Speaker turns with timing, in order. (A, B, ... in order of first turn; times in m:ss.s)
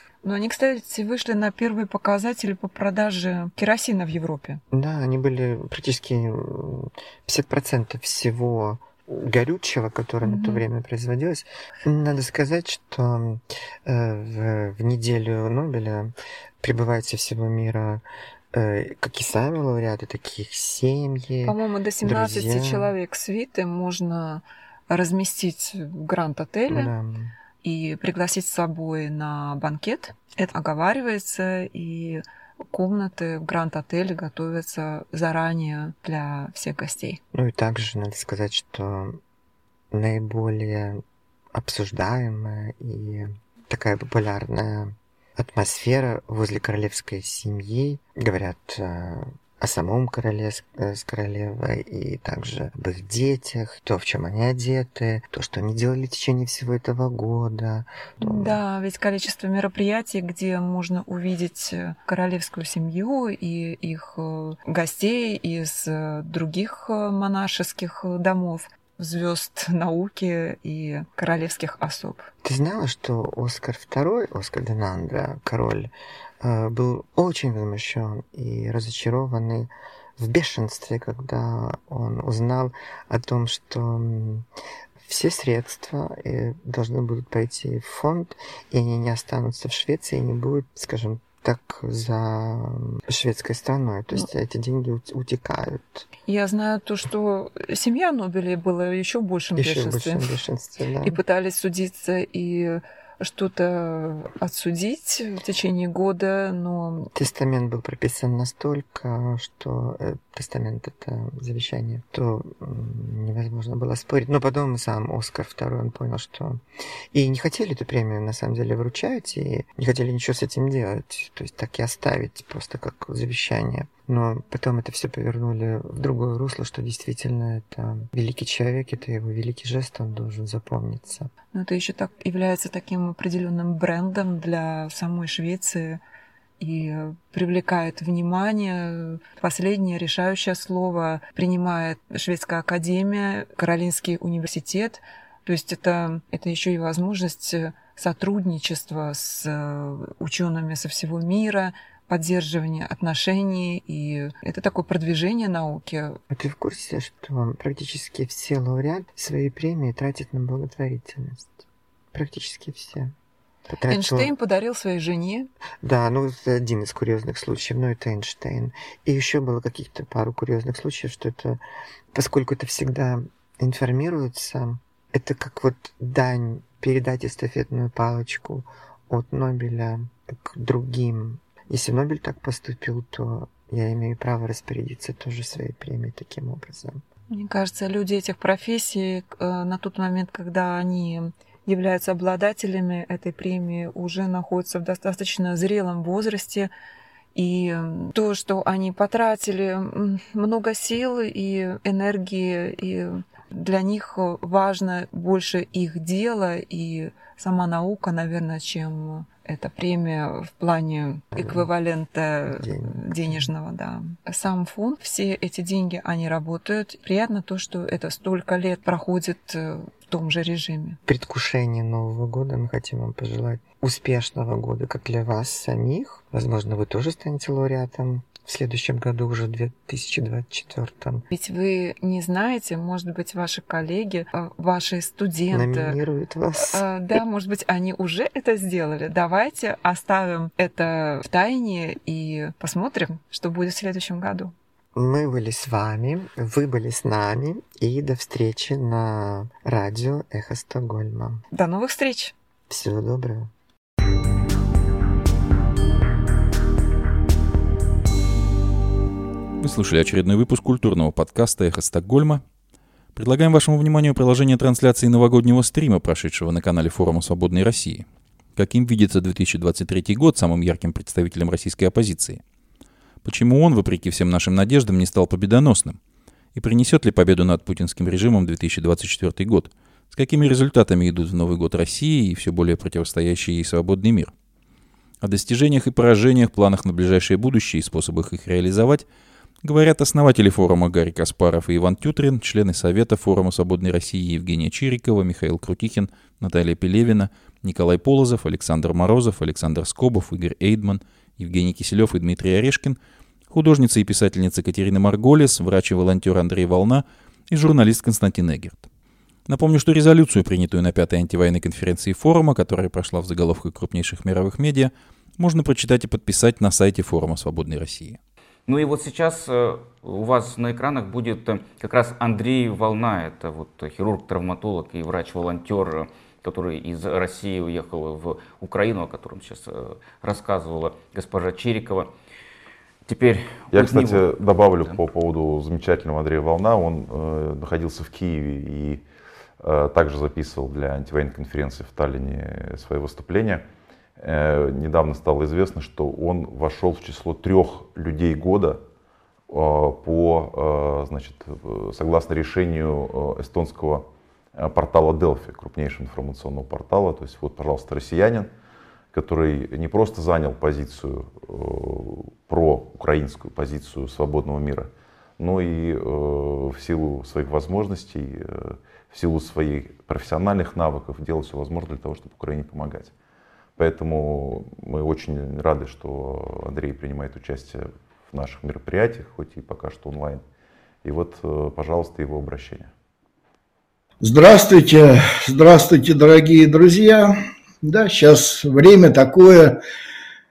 0:00.2-0:04.6 A
0:04.7-0:22.9 B
0:10.2-0:10.6 A
0:21.4-0:26.9 A
0:26.7-0:27.3 B
0:27.6-0:37.2 A
0:37.3-0:39.2 B
0:39.9-0:41.0 B
0:41.5-0:58.6 B
0:58.2-1:12.3 A
1:12.4-1:24.5 B
1:25.0-1:36.1 B
1:36.3-1:40.4 A
1:39.6-1:41.2 B
1:41.0-1:47.1 A
1:47.2-2:11.3 B
2:11.5-2:16.0 A
2:16.6-2:36.2 A
2:36.3-2:43.1 B
2:43.7-2:44.3 B
2:43.9-2:45.5 A
2:45.8-2:51.6 B
2:52.1-3:07.0 B
3:07.3-3:16.7 A
3:17.3-3:41.0 A
3:31.4-3:31.6 B
3:32.5-3:33.4 B
3:41.1-3:51.3 B
3:51.3-3:56.0 A
3:55.5-3:56.8 B
3:56.6-4:04.5 A
4:04.9-4:11.4 B
4:11.5-4:12.3 A
4:12.7-4:13.5 B
4:19.6-4:22.4 C
4:23.2-4:28.0 C
4:28.6-4:32.4 C
4:33.2-4:36.0 C
4:36.5-4:44.3 C
4:45.2-4:49.0 C
4:49.6-5:03.0 C
5:03.5-5:08.8 C
5:09.5-5:18.2 C
5:18.7-5:32.1 D
5:33.0-5:35.0 D
5:33.7-5:39.0 E
5:39.6-5:43.6 E
5:44.2-5:48.8 E
5:49.5-5:58.5 E
5:59.1-6:13.1 E
6:13.8-6:20.4 E
6:21.0-6:22.9 E
6:24.2-6:29.8 F